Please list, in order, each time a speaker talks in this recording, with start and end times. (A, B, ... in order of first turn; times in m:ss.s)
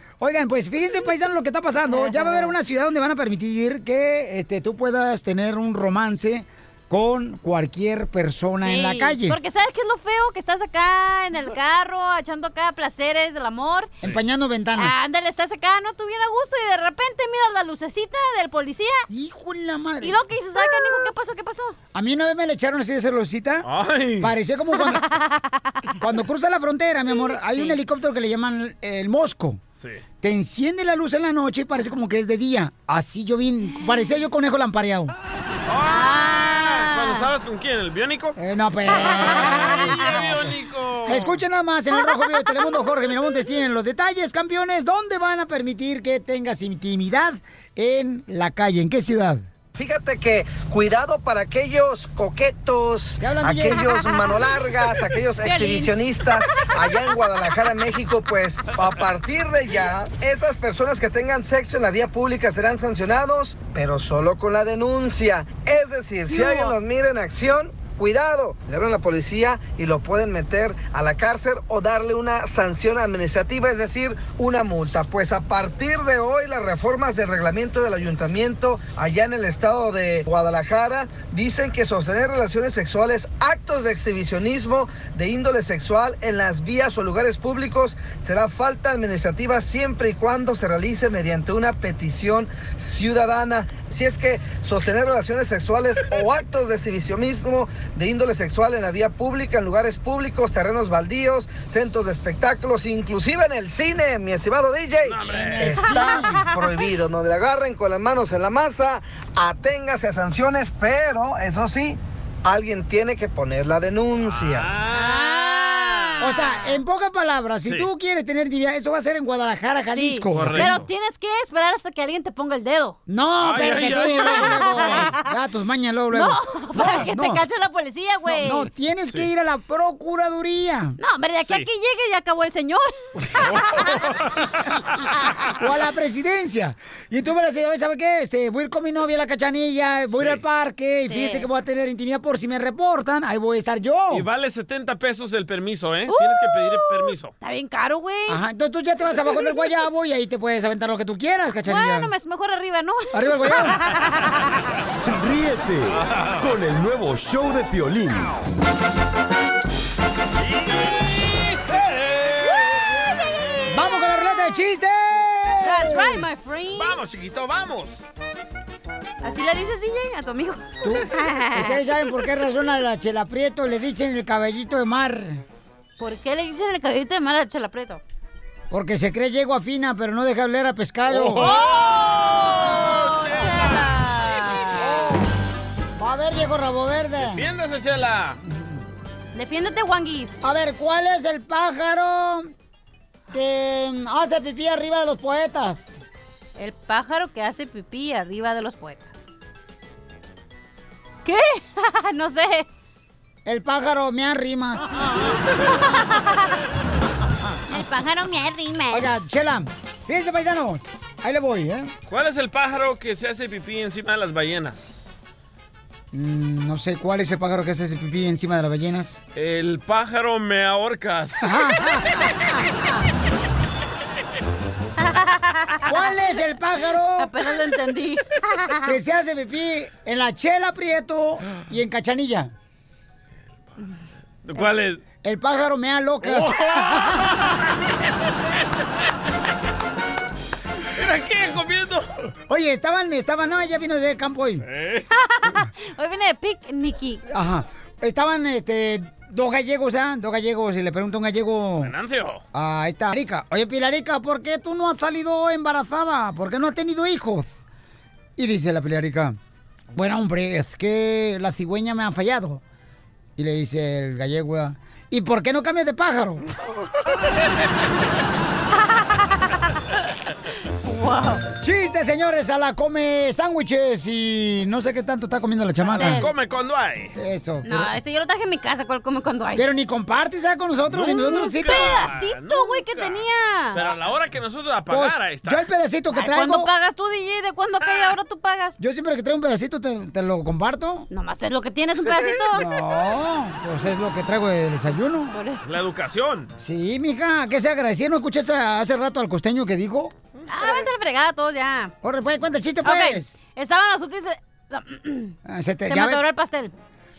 0:00.2-0:09.4 A
0:01.9-0:02.5 B
0:08.6-0:13.9 B
0:14.0-0:15.0 A
0:14.7-0:19.0 B
0:19.1-0:20.2 A
0:20.0-0:21.8 B
0:21.9-0:23.7 A
0:23.6-0:24.3 C
0:24.2-0:25.1 A
0:24.7-0:25.9 B
0:26.0-0:29.6 A
0:27.5-0:27.8 B
0:30.2-0:35.1 A
0:33.8-0:34.1 B
0:35.7-0:38.4 C
0:35.8-0:37.3 B
0:38.4-0:40.5 A
0:38.9-0:40.1 B
0:38.9-0:41.4 C
0:41.0-0:49.4 A
0:49.7-1:54.7 D
0:53.2-0:53.9 A
0:55.4-0:55.9 B
1:06.3-1:06.8 B
1:45.0-1:45.8 C
1:45.3-1:46.4 A
1:45.8-1:46.5 B
1:54.2-1:56.4 C
1:54.9-1:56.8 B
1:56.2-2:00.8 A
1:59.9-2:03.0 B
2:00.3-2:00.9 C
2:03.1-2:07.4 A
2:03.4-2:05.1 C
2:03.8-2:05.3 B
2:06.1-2:08.7 B
2:08.2-2:11.0 A
2:11.0-2:13.9 B
2:11.4-2:11.7 C
2:13.4-2:14.5 C
2:15.6-2:24.2 A
2:20.1-2:20.4 C
2:21.0-2:21.5 B
2:24.1-2:27.3 C
2:26.1-2:28.4 B
2:28.3-2:32.1 A
2:31.6-2:34.6 B
2:33.1-2:33.8 A
2:35.0-2:38.4 E
2:35.9-2:36.4 C
2:40.4-2:43.0 C
2:43.7-2:46.2 A
2:45.6-2:47.0 B
2:46.7-2:48.0 C
2:49.2-2:51.8 B
2:50.8-2:55.4 A
2:56.0-2:58.0 B
2:58.7-3:01.5 A
3:01.1-3:03.9 C
3:01.4-3:05.0 B
3:04.8-3:05.2 C
3:06.0-3:07.4 A
3:07.2-3:08.4 C
3:09.3-3:10.4 B
3:10.4-3:12.5 A
3:13.3-3:15.8 A
3:16.6-3:19.3 B
3:21.2-3:22.6 B
3:23.4-3:24.9 A
3:25.7-3:26.5 B
3:27.7-3:29.1 B
3:28.9-3:31.9 A
3:32.1-3:35.0 C
3:36.1-3:39.2 A
3:39.3-3:41.6 C
3:41.4-3:42.4 A
3:45.0-3:46.1 B
3:45.8-3:47.3 A
3:47.2-3:48.9 B
3:48.8-3:52.5 A
3:54.4-3:55.0 C
3:55.2-3:57.3 A
3:56.2-3:57.6 C
4:00.9-4:02.3 C
4:02.5-4:04.6 A
4:04.6-4:05.1 C
4:05.1-4:07.2 B
4:07.3-4:11.9 A
4:11.8-4:12.4 C
4:12.5-4:17.6 A
4:18.4-4:19.4 A
4:19.9-4:22.6 A
4:23.4-4:26.4 A
4:30.8-4:31.4 B
4:31.6-4:36.2 A
4:35.8-4:36.3 B
4:35.9-4:37.1 C
4:37.2-4:37.9 A
4:37.6-4:39.6 B
4:39.5-4:42.1 A
4:40.9-4:45.6 C
4:41.0-4:43.8 B
4:44.9-4:46.7 A
4:46.1-4:48.8 B
4:47.8-4:48.2 C
4:48.8-4:51.1 A
4:51.1-4:52.7 B
4:52.5-4:55.3 A
4:55.3-4:55.6 B
4:55.6-4:56.5 C
4:56.6-5:00.1 A
5:00.4-5:00.9 C
5:00.5-5:01.9 B
5:02.0-5:03.3 A
5:02.8-5:05.4 B
5:05.4-5:06.2 A
5:05.9-5:06.7 B